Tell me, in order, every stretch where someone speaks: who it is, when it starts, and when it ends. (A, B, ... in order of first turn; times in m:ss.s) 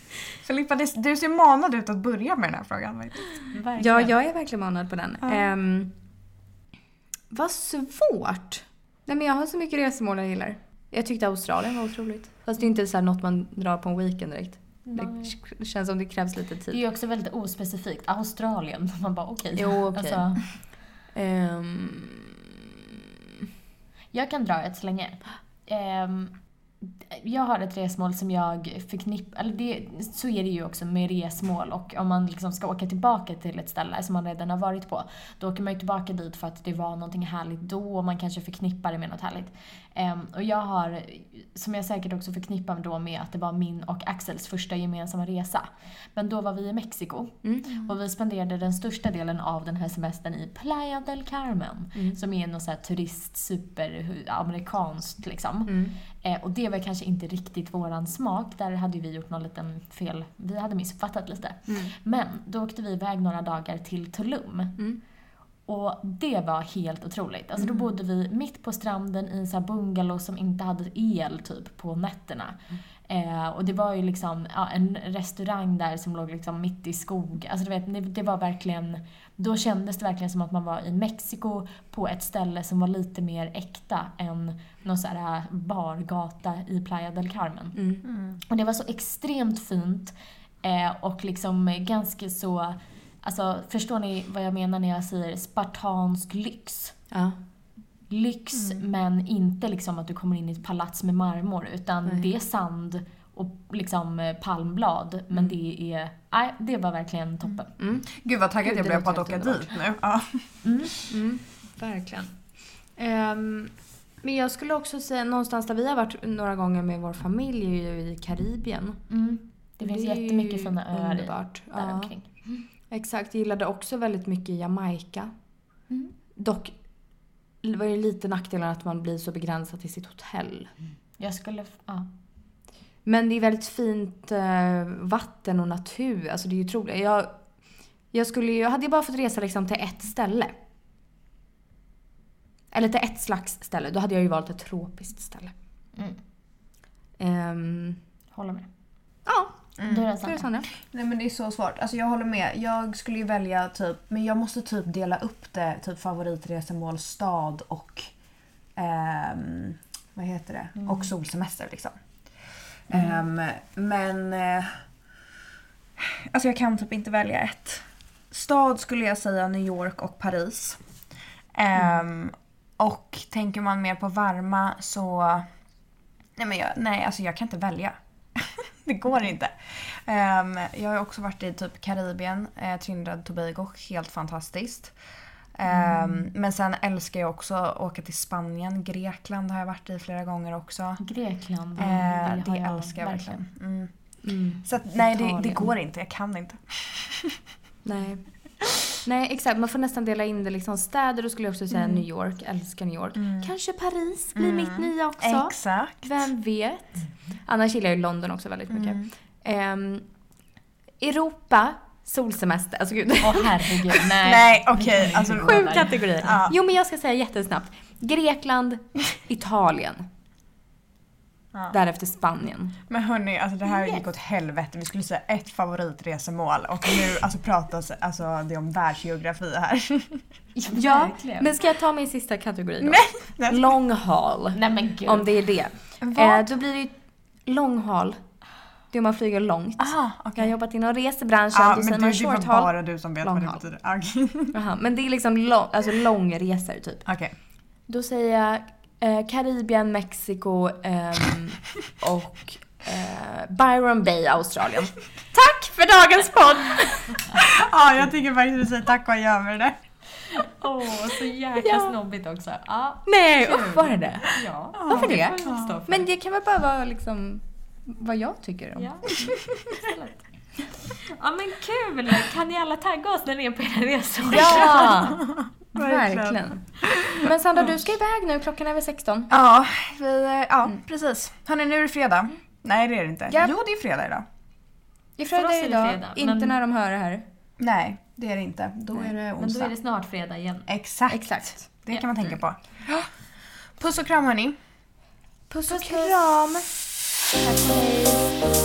0:00.4-0:03.4 A
0:03.5-0:04.2 B
0:03.8-0:06.0 C
0:07.3-0:16.8 C
0:14.8-0:15.4 B
0:16.7-0:20.6 B
0:19.6-0:20.5 C
0:21.1-0:23.0 C
0:24.1-1:04.8 B
0:47.4-0:47.7 C
0:55.7-0:55.9 C
1:01.7-1:01.9 C
1:05.7-1:27.8 B
1:27.8-1:28.0 C
1:28.1-1:28.4 A
1:28.5-1:37.0 B
1:37.1-1:37.4 C
1:38.1-1:47.7 B
1:47.8-1:48.1 C
1:48.1-1:50.4 A
1:48.6-1:49.8 C
1:50.6-1:51.0 B
1:51.1-1:52.3 C
1:53.0-1:59.0 C
1:59.1-2:02.3 B
1:59.8-2:02.1 C
2:02.9-2:05.3 C
2:06.4-2:06.7 C
2:07.6-2:10.7 C
2:11.2-2:12.1 B
2:13.0-2:17.4 C
2:18.1-2:20.6 C
2:22.7-2:25.5 C
2:27.2-2:28.0 C
2:28.3-2:28.7 B
2:29.3-2:30.7 C
2:29.8-2:30.1 A
2:29.8-2:30.5 B
2:30.7-2:38.1 A
2:38.8-2:42.0 A
2:40.8-2:41.1 B
2:42.9-2:44.8 A
2:46.0-2:50.8 A
2:51.6-2:55.5 A
2:56.4-3:04.9 A
3:05.6-3:11.0 A
3:05.8-3:06.2 B
3:11.0-3:13.4 B
3:11.8-3:13.9 A
3:14.2-3:15.7 C
3:14.6-3:17.4 A
3:17.8-3:18.3 C
3:19.0-3:30.0 C
3:21.7-3:22.0 A
3:23.2-3:23.5 A
3:24.4-3:26.2 A
3:28.7-3:29.1 A
3:31.0-3:34.0 C
3:33.2-3:36.4 B
3:34.2-3:36.6 A
3:35.4-3:40.1 C
3:41.7-3:42.8 C
3:42.9-3:50.2 A
3:43.7-3:44.0 B
3:50.6-3:51.6 B
3:50.7-3:57.0 C
3:52.8-3:53.7 A
3:54.5-3:55.3 B
3:56.0-3:56.4 A
3:57.5-3:58.2 C
3:58.9-4:03.6 C
3:59.8-4:00.5 A
4:01.5-4:04.5 A
4:04.5-4:07.1 C
4:07.1-4:07.3 A
4:07.9-4:17.4 C
4:17.3-4:19.8 A
4:20.4-4:26.0 B
4:21.6-4:21.9 C
4:23.1-4:24.3 C
4:24.7-4:25.8 A
4:24.8-4:28.9 C
4:28.8-4:30.2 B
4:30.9-4:35.2 B
4:34.3-4:39.3 C
4:34.4-4:37.3 A
4:39.3-4:44.3 A
4:45.2-4:47.2 C
4:45.3-4:46.6 B
4:47.6-4:49.7 A
4:49.4-4:50.7 B
4:50.7-4:53.1 A
4:51.1-4:51.6 C
4:53.8-4:54.6 A
4:55.5-4:56.7 C
4:55.7-4:56.2 B
4:57.4-4:58.4 C